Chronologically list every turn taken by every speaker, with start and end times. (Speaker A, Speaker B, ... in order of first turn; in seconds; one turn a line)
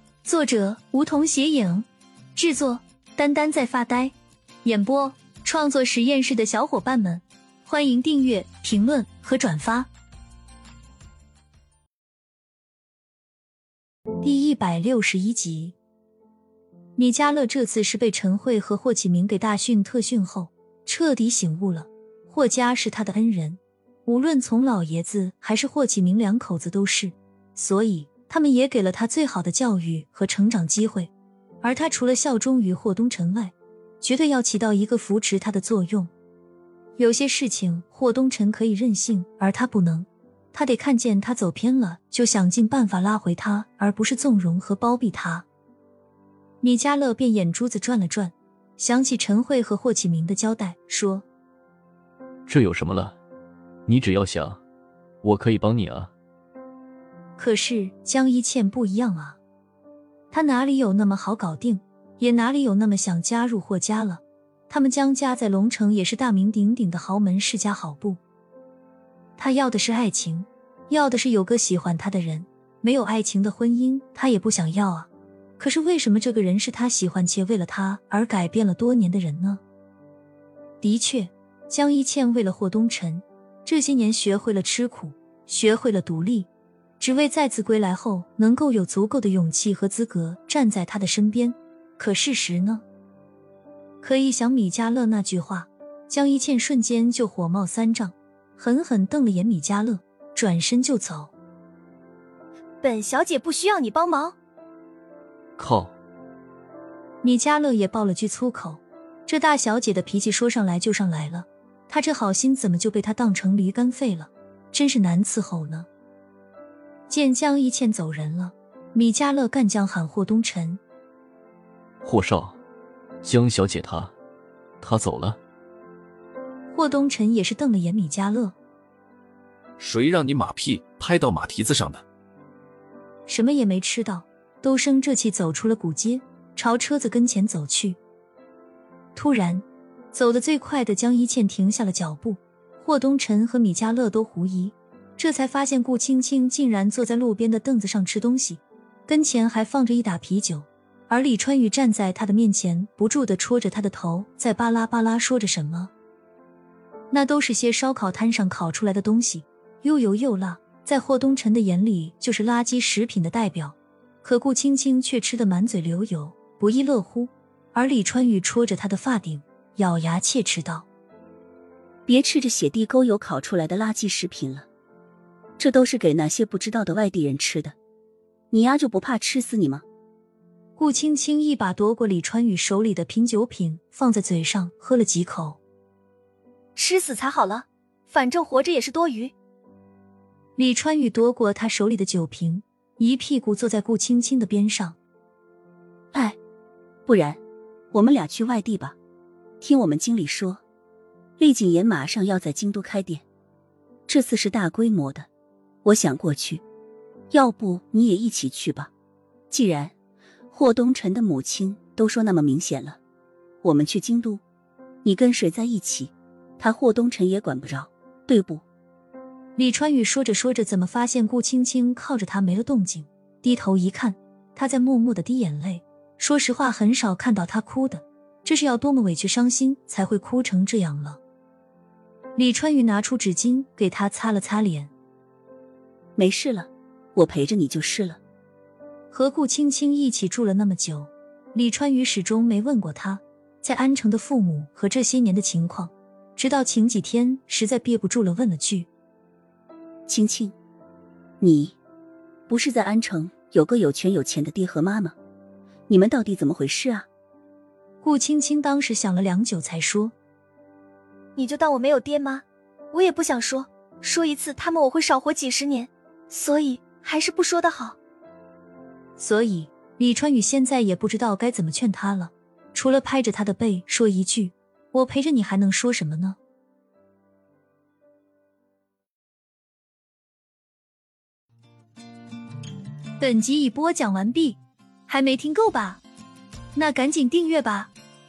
Speaker A: 0.2-9.9
Speaker A: 14.2-15.8
Speaker A: 17.0-36.1
Speaker A: 37.0-45.5
Speaker A: 46.6-51.2
Speaker B: 52.5-53.1
Speaker B: 53.9-54.6
Speaker B: 55.2-56.1
Speaker A: 57.4-59.4
Speaker A: 60.3-68.2
Speaker A: 69.4-79.6
Speaker A: 80.8-86.5
Speaker A: 87.0-92.8
Speaker A: 94.0-101.3
Speaker C: 102.8-104.3
Speaker B: 105.6-105.9
Speaker A: 107.2-115.9
Speaker A: 117.1-120.8
Speaker B: 122.0-122.6
Speaker B: 123.2-124.1
Speaker B: 124.8-125.4
Speaker A: 126.7-128.6
Speaker D: 129.8-132.0
Speaker A: 133.2-138.0
Speaker A: 139.1-155.9
Speaker A: 157.1-170.8
Speaker E: 172.1-174.7
Speaker E: 175.6-177.7
Speaker E: 178.5-179.8
Speaker A: 180.8-185.6
Speaker C: 186.8-189.3
Speaker A: 190.6-195.0
Speaker E: 197.1-197.4
Speaker E: 197.9-198.9
Speaker E: 199.6-200.6
Speaker E: 201.4-203.2
Speaker E: 204.1-205.3
Speaker E: 205.8-206.6
Speaker E: 207.3-208.9
Speaker E: 209.5-209.9
Speaker E: 210.5-213.0
Speaker E: 213.6-214.4
Speaker E: 215.0-218.6
Speaker A: 219.6-231.2
Speaker A: 232.3-234.9
Speaker E: 236.2-238.2
Speaker A: 239.1-248.9
Speaker E: 250.1-250.6
Speaker E: 251.4-251.8
Speaker E: 252.5-255.1
Speaker E: 255.9-257.1
Speaker A: 258.0-260.1
Speaker C: 261.4-267.9
Speaker A: 269.2-276.4
Speaker A: 283.2-286.0
Speaker A: 286.7-287.9